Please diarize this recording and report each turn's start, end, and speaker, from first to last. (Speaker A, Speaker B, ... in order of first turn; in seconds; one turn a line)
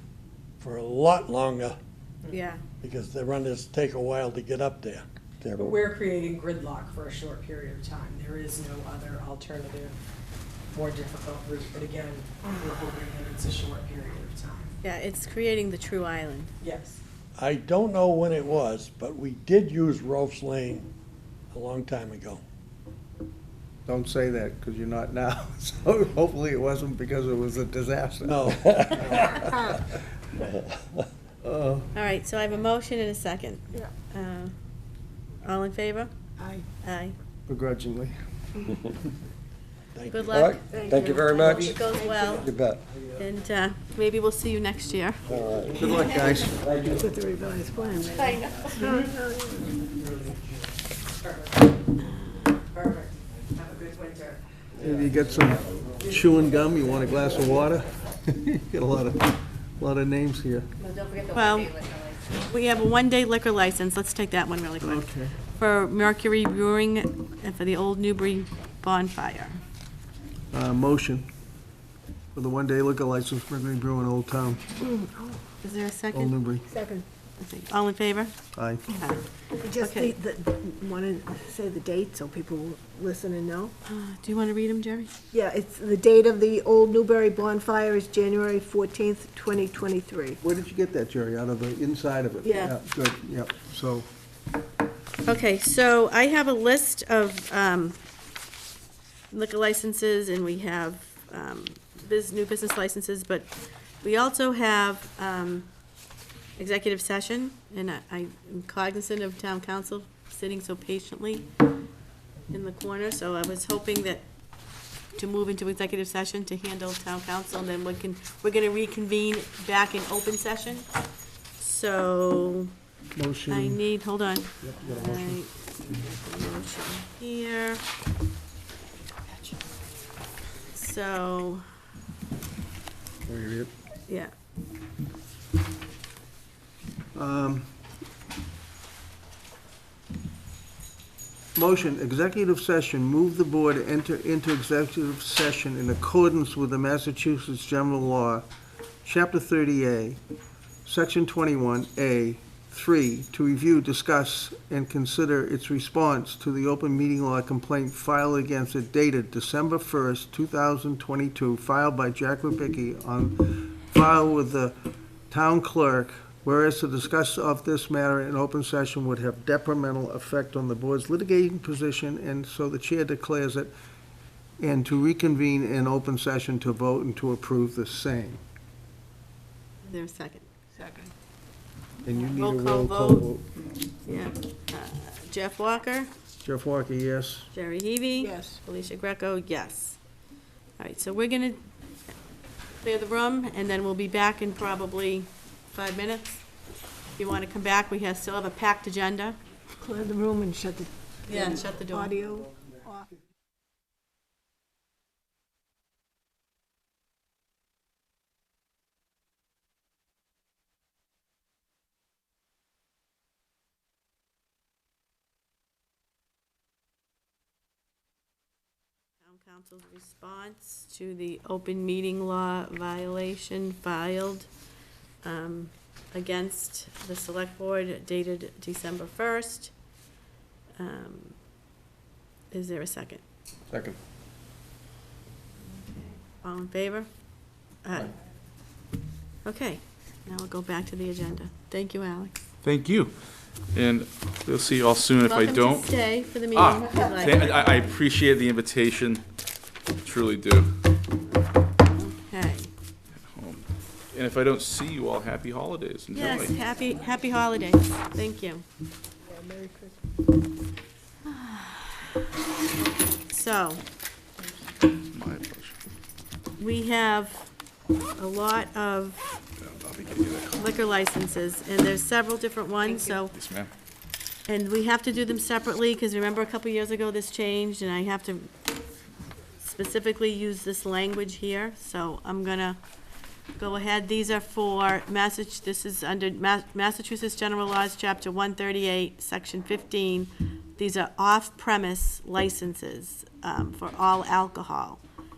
Speaker A: 0.6-1.8
Speaker B: 2.3-2.6
Speaker A: 2.8-5.8
Speaker C: 5.5-10.0
Speaker C: 10.7-14.7
Speaker B: 14.8-16.5
Speaker C: 16.6-17.0
Speaker A: 17.4-20.9
Speaker A: 21.5-22.4
Speaker D: 23.9-29.9
Speaker A: 28.2-29.4
Speaker D: 31.4-31.9
Speaker B: 31.9-34.5
Speaker B: 35.4-36.1
Speaker E: 36.4-36.6
Speaker B: 36.8-37.1
Speaker D: 37.5-38.1
Speaker A: 39.9-40.5
Speaker B: 40.1-42.5
Speaker F: 40.3-41.7
Speaker E: 40.6-42.5
Speaker F: 42.4-42.8
Speaker B: 43.2-45.2
Speaker F: 45.3-45.8
Speaker D: 45.8-46.8
Speaker B: 45.9-46.3
Speaker E: 46.8-49.8
Speaker B: 48.1-49.0
Speaker C: 51.2-51.6
Speaker B: 52.1-52.3
Speaker C: 52.7-54.4
Speaker D: 54.8-60.7
Speaker F: 60.9-61.2
Speaker B: 61.3-61.7
Speaker B: 62.3-69.6
Speaker D: 64.8-65.3
Speaker D: 70.5-71.3
Speaker D: 72.3-74.6
Speaker E: 74.8-75.3
Speaker B: 75.6-76.3
Speaker D: 76.1-76.6
Speaker E: 76.7-77.0
Speaker B: 77.4-78.3
Speaker D: 78.5-78.8
Speaker B: 78.9-80.2
Speaker E: 79.6-83.7
Speaker B: 83.8-85.1
Speaker E: 85.3-90.4
Speaker D: 90.4-94.1
Speaker E: 92.4-92.7
Speaker B: 95.2-98.0
Speaker B: 99.3-105.7
Speaker B: 106.5-111.5
Speaker B: 112.5-114.2
Speaker B: 115.1-120.9
Speaker B: 121.6-122.7
Speaker D: 123.1-123.8
Speaker B: 123.5-127.8
Speaker D: 124.6-125.4
Speaker B: 129.0-129.6
Speaker B: 130.7-131.7
Speaker D: 133.2-133.7
Speaker B: 134.1-134.3
Speaker D: 137.1-137.7
Speaker D: 141.5-148.5
Speaker D: 149.0-150.2
Speaker D: 150.8-164.8
Speaker D: 165.3-173.7
Speaker D: 174.6-178.4
Speaker B: 179.9-180.4
Speaker E: 180.8-181.1
Speaker D: 182.0-183.5
Speaker B: 182.1-183.3
Speaker B: 184.0-186.1
Speaker D: 186.4-187.5
Speaker B: 187.5-190.0
Speaker E: 188.2-188.6
Speaker B: 190.8-191.7
Speaker B: 192.8-196.4
Speaker B: 197.2-199.4
Speaker E: 199.8-203.0
Speaker B: 201.3-202.2
Speaker B: 219.2-224.5
Speaker B: 225.2-229.7
Speaker B: 230.8-231.4
Speaker B: 232.5-233.2
Speaker D: 233.7-234.0
Speaker B: 236.3-237.1
Speaker B: 237.8-238.1
Speaker B: 239.4-242.3
Speaker G: 242.6-243.1
Speaker G: 243.7-245.9
Speaker B: 245.2-247.9
Speaker G: 246.5-249.2
Speaker G: 250.0-250.7
Speaker B: 251.9-252.7
Speaker G: 253.3-256.5
Speaker B: 256.1-258.6
Speaker E: 259.3-260.0
Speaker B: 261.2-262.1
Speaker B: 263.2-263.8
Speaker G: 265.1-265.7
Speaker B: 266.6-267.5
Speaker B: 268.1-269.4
Speaker G: 269.6-270.6
Speaker B: 270.6-273.4
Speaker G: 272.9-273.7
Speaker B: 274.4-278.5
Speaker B: 279.6-282.8
Speaker B: 283.5-295.0